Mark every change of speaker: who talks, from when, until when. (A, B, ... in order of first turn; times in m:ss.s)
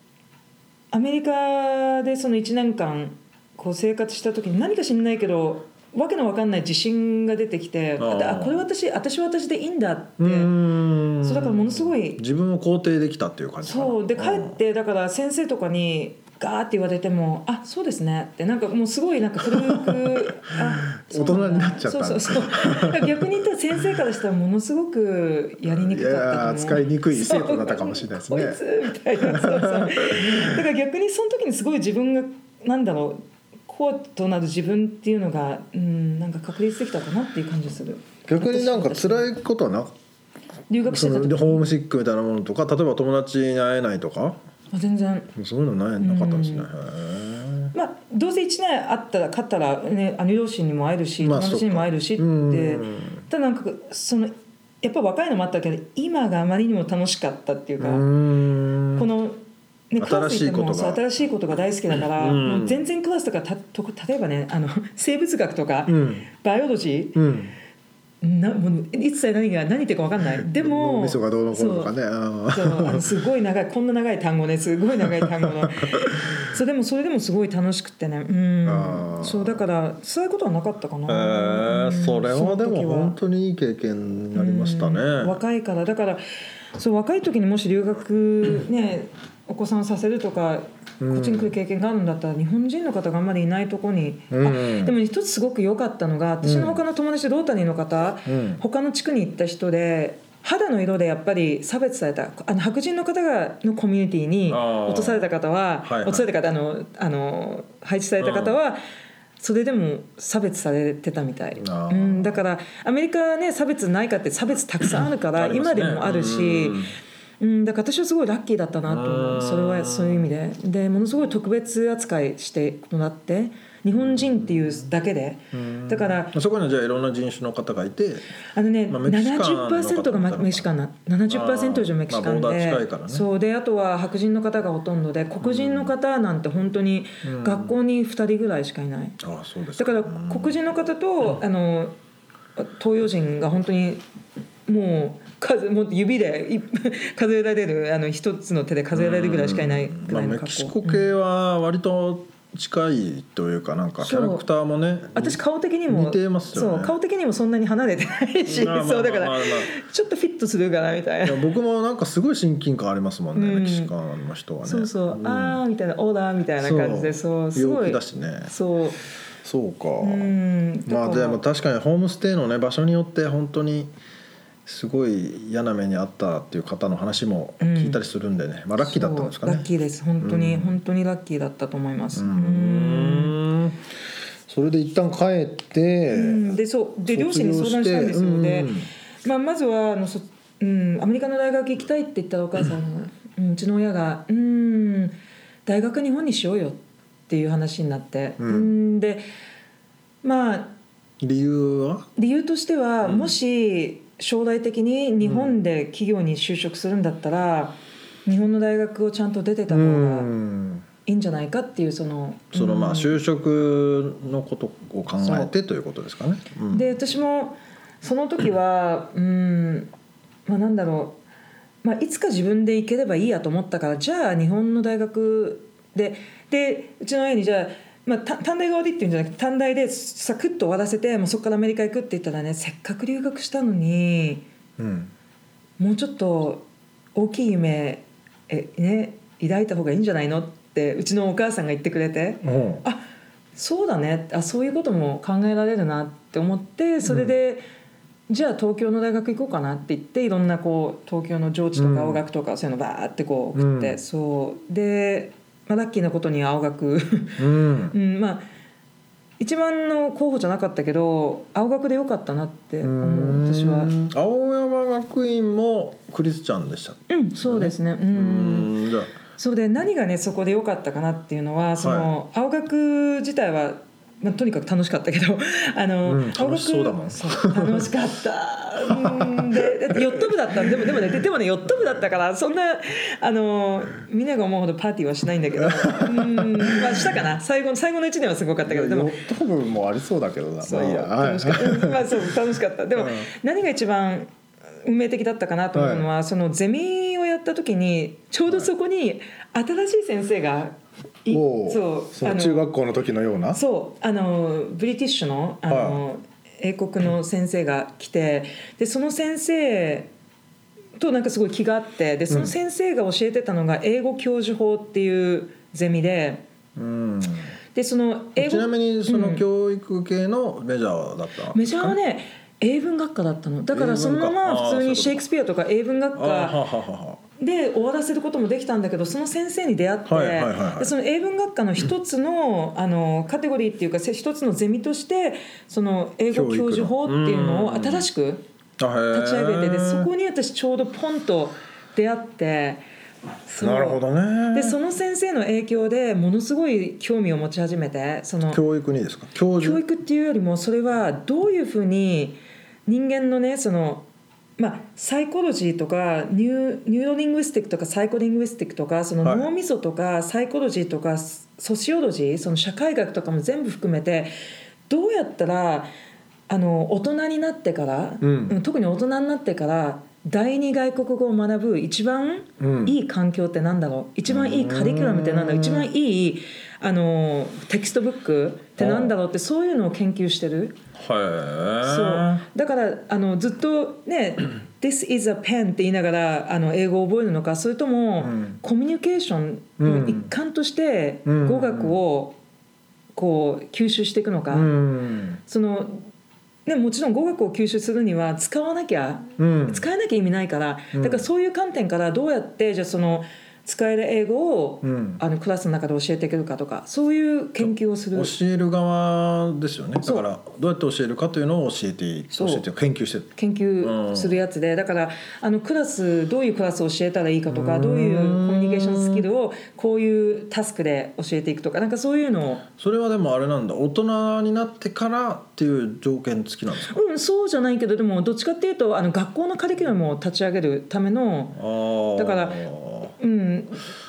0:00.9-0:10.5 A
0:08.0-0:08.6 B
0:10.2-0:14.6 B
0:11.2-0:12.2 A
0:13.6-0:39.3 A
0:19.4-0:23.8 B
0:25.6-0:28.6 B
0:29.1-0:30.6 B
0:38.2-0:39.9 B
0:40.7-0:41.7 A
0:40.9-0:44.4 B
0:44.7-0:45.3 A
0:45.3-0:47.7 B
0:46.0-0:46.7 A
0:47.7-0:58.1 A
0:51.2-0:53.2 B
0:57.8-0:59.1 B
0:58.9-0:59.4 A
0:59.9-1:07.2 A
1:00.0-1:01.0 B
1:02.2-1:02.8 B
1:05.9-1:06.2 B
1:07.2-1:07.5 B
1:08.2-1:11.9 A
1:10.4-1:13.1 B
1:12.5-1:23.2 A
1:15.0-1:16.4 B
1:18.6-1:19.6 B
1:21.1-1:25.4 B
1:24.3-1:26.2 A
1:26.7-1:48.8 A
1:31.0-1:31.5 B
1:34.3-1:34.9 B
1:36.4-1:36.8 B
1:38.2-1:38.6 B
1:44.5-1:45.3 B
1:45.8-1:46.3 B
1:48.2-1:48.6 B
1:49.4-1:56.8 A
1:51.6-1:52.4 B
1:55.4-1:56.9 B
1:57.4-2:06.3 A
1:58.9-2:00.3 B
2:04.0-2:04.8 B
2:05.5-2:08.2 B
2:08.5-2:19.2 A
2:08.9-2:10.7 B
2:11.3-2:13.2 B
2:15.4-2:15.9 B
2:17.2-2:17.8 B
2:19.2-2:20.6 B
2:19.8-2:21.9 A
2:22.6-2:24.0 A
2:24.7-2:31.1 A
2:28.9-2:36.9 B
2:34.0-2:34.4 A
2:35.1-2:41.4 A
2:38.5-2:39.7 B
2:41.2-2:45.6 B
2:43.3-2:43.9 A
2:44.6-2:49.0 A
2:46.6-2:48.5 B
2:49.4-2:50.3 B
2:50.0-2:51.4 A
2:50.9-2:53.9 B
2:54.6-2:59.7 B
2:57.6-2:58.0 A
2:58.8-3:03.4 A
3:00.2-3:00.7 B
3:02.1-3:03.8 B
3:04.5-3:06.6 B
3:06.1-3:15.1 A
3:07.1-3:08.9 B
3:15.6-3:19.2 A
3:18.4-3:18.7 B
3:20.2-3:20.8 A
3:21.2-3:22.1 B
3:22.2-3:30.3 A
3:23.0-3:23.4 B
3:25.2-3:25.6 B
3:29.7-3:30.8 B
3:31.0-3:33.2 A
3:32.5-3:36.8 B
3:35.2-3:35.5 A
3:36.7-3:39.9 A
3:40.4-3:41.2 A
3:41.8-3:54.4 A
3:54.8-3:55.1 B
3:55.8-4:03.0 A
4:02.4-4:02.8 B
4:03.5-4:07.6 A
4:07.0-4:07.3 B
4:08.3-4:18.5 A
4:11.8-4:12.2 B
4:13.5-4:14.0 B
4:17.4-4:17.9 B
4:19.4-4:23.9 A
4:22.8-4:29.2 B
4:27.1-4:28.7 A
4:29.4-4:49.1 A
4:31.8-4:32.1 B
4:36.1-4:37.9 B
4:38.8-4:40.7 B
4:45.6-4:47.2 B
4:48.6-4:52.3 B
4:50.6-4:54.3 A
4:53.0-4:53.2 B
4:54.8-5:02.7 A
4:55.7-4:56.1 B
5:01.3-5:03.6 B
5:03.5-5:10.1 A
5:05.7-5:06.0 B
5:11.0-5:16.4 A
5:12.3-5:12.5 B
5:16.8-5:17.5 B
5:17.7-5:19.4 A
5:18.4-5:22.0 B
5:21.5-5:26.6 A
5:23.7-5:25.2 B
5:26.1-5:27.2 B
5:27.4-5:38.4 A
5:30.0-5:30.9 B
5:36.3-5:38.0 B
5:38.8-5:40.1 B
5:39.1-5:42.8 A
5:43.4-5:44.0 A
5:43.6-5:44.8 B
5:44.5-5:48.6 A
5:48.5-5:49.8 B
5:49.6-5:54.0 A
5:54.6-6:04.3 A
5:59.2-5:59.5 B
6:04.9-6:05.9 A
6:06.5-6:20.8 A
6:08.2-6:08.6 B
6:12.6-6:13.0 B
6:14.3-6:15.9 B
6:18.8-6:19.1 B
6:20.9-6:22.4 B
6:21.8-6:32.4 A
6:28.2-6:28.6 B
6:29.8-6:30.3 B
6:31.2-6:32.0 B
6:33.1-6:34.7 A
6:34.5-6:35.4 B
6:35.5-6:36.1 A
6:36.6-6:48.3 A
6:39.4-6:39.8 B
6:40.9-6:41.2 B
6:44.8-6:45.2 B
6:47.6-6:54.4 B
6:52.3-6:52.6 A
6:53.3-7:02.6 A
6:57.5-6:59.3 B
7:02.8-7:07.0 B
7:06.8-7:11.6 A
7:11.5-7:13.1 B
7:12.2-7:12.6 A
7:13.2-7:13.9 A